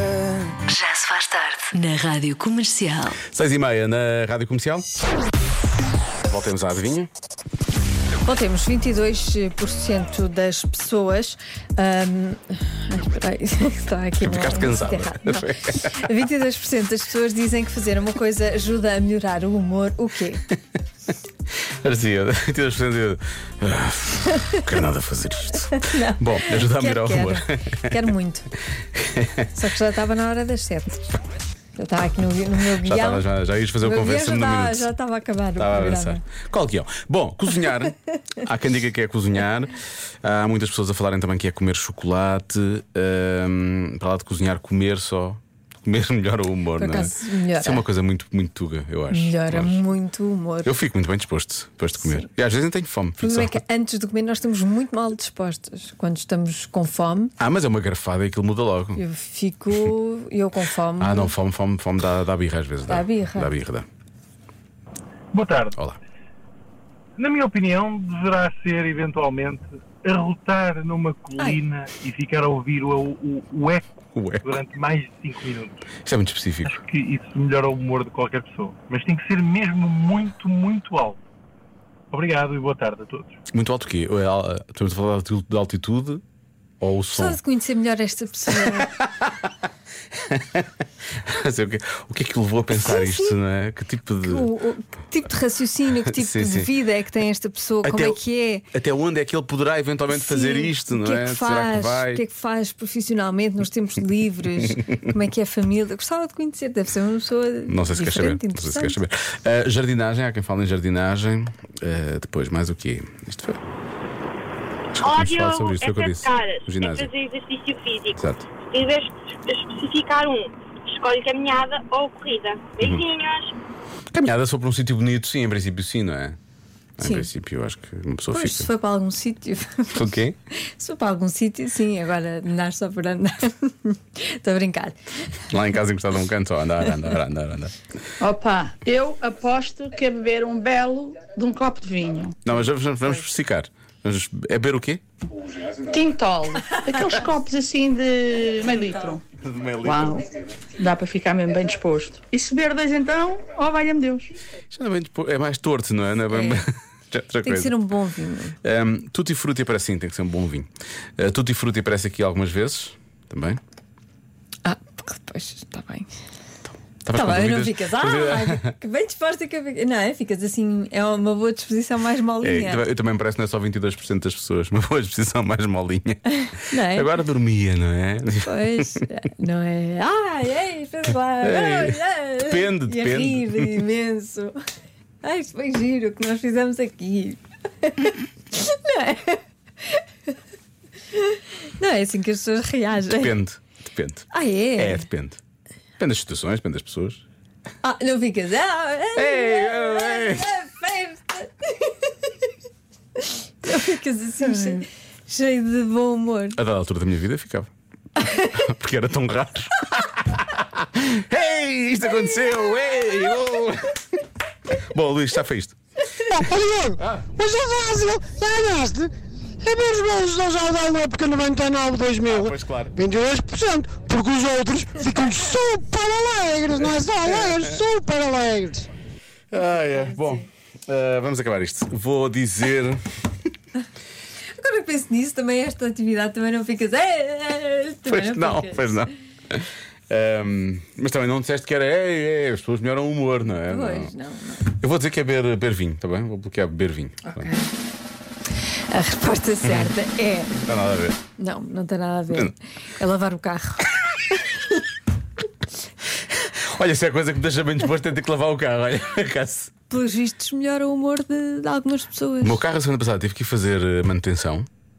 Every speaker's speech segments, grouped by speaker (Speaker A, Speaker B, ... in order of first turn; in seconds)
Speaker A: 0.7-3.1
Speaker B: 3.3-4.8, 6.2-7.1, 14.2-16.1, 21.8-28.0, 29.0-29.5, 32.8-34.9, 35.6-49.8, 50.6-53.6, 57.4-59.0, 61.0-63.9, 74.1-74.6, 76.0-76.7, 83.5-86.2, 86.8-87.4, 88.6-89.3, 90.1-90.7, 91.2-94.5, 96.1-96.7, 97.8-98.2, 98.7-102.2, 107.7-113.6, 114.9-117.1, 118.1-118.5, 122.8-123.0, 124.1-126.4, 127.0-128.7, 129.9-130.3, 135.5-137.7, 142.4-145.0, 149.4-150.2, 154.7-157.8, 158.6-163.6, 167.0-168.7, 172.4-176.2, 176.7-179.0, 181.4-183.8, 193.0-195.4, 196.0-197.2, 199.2-200.5, 206.6-207.7, 208.6-214.0, 214.9-215.8, 222.2-223.0, 226.8-227.8, 229.5-233.0, 238.1-244.1, 244.7-247.5, 249.6-249.9, 250.6-251.2, 256.5-259.7, 262.4-264.7
Speaker C: 8.2-20.4, 25.7-28.5, 29.5-31.1, 31.8-33.2, 33.8-36.2, 46.8-47.9, 49.1-50.7, 53.2-57.3, 59.0-61.3, 62.9-63.5, 87.1-88.9, 92.8-93.3, 94.2-98.6, 100.1-109.0, 127.0-127.3, 128.3-130.0, 130.7-134.9, 156.3-156.6, 157.4-158.6, 164.6-166.1, 167.1-172.8, 176.4-177.1, 178.4-184.5, 185.2-189.4, 191.1-193.3, 194.3-195.1, 197.8-202.3, 203.6-206.6, 230.1-230.4, 234.5-239.1, 243.7-244.7, 247.3-247.7, 248.9-250.6, 251.4-253.8, 259.9-262.6
Speaker D: 65.3-65.8, 67.2-73.8, 74.4-75.8, 76.7-81.2, 82.1-83.3
Speaker E: 115.0-123.5
Speaker F: 138.2-142.3, 145.9-149.2, 149.8-150.2, 150.8-154.3
Speaker G: 217.2-219.0, 219.7-222.4, 223.0-228.8